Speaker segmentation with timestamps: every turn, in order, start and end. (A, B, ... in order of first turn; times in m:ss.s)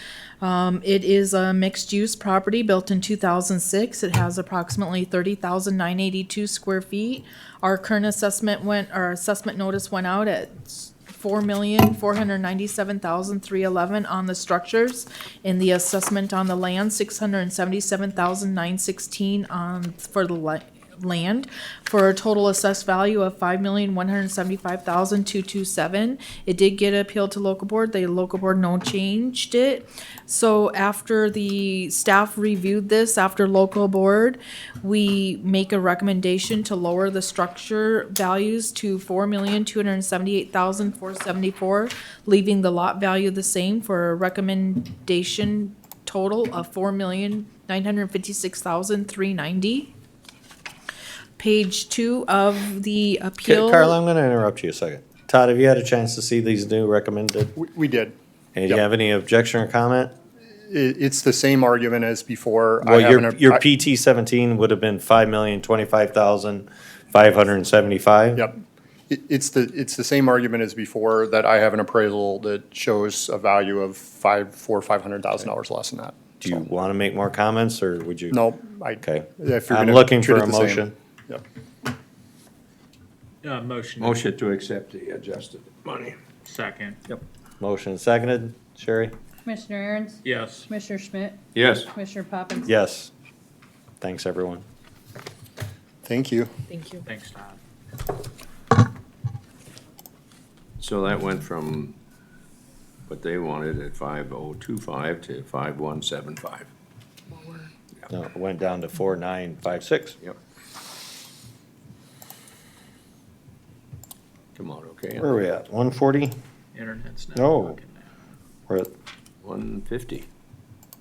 0:00.4-0:49.9 A
0:51.4-0:53.9 A
0:53.4-0:57.5 B
0:57.6-0:58.1 C
0:58.5-1:00.1 B
1:00.5-1:03.6 C
1:02.8-1:08.5 B
1:09.1-1:16.2 C
1:16.4-1:18.4 B
1:18.3-1:21.4 C
1:19.0-1:20.9 B
1:23.4-1:24.2 D
1:24.0-1:26.2 E
1:26.4-1:27.0 D
1:27.6-1:29.1 B
1:29.4-1:32.7 F
1:30.2-1:30.7 D
1:31.5-1:31.9 E
1:32.6-1:33.1 B
1:34.0-1:34.6 B
1:36.0-1:36.5 C
1:36.7-1:37.0 A
1:37.0-1:37.6 D
1:40.8-1:42.0 E
1:43.1-1:46.7 E
1:48.1-1:50.2 B
1:54.6-1:55.3 E
1:55.2-1:56.3 B
1:56.7-1:58.0 D
1:57.3-1:57.8 B
1:59.4-2:00.3 E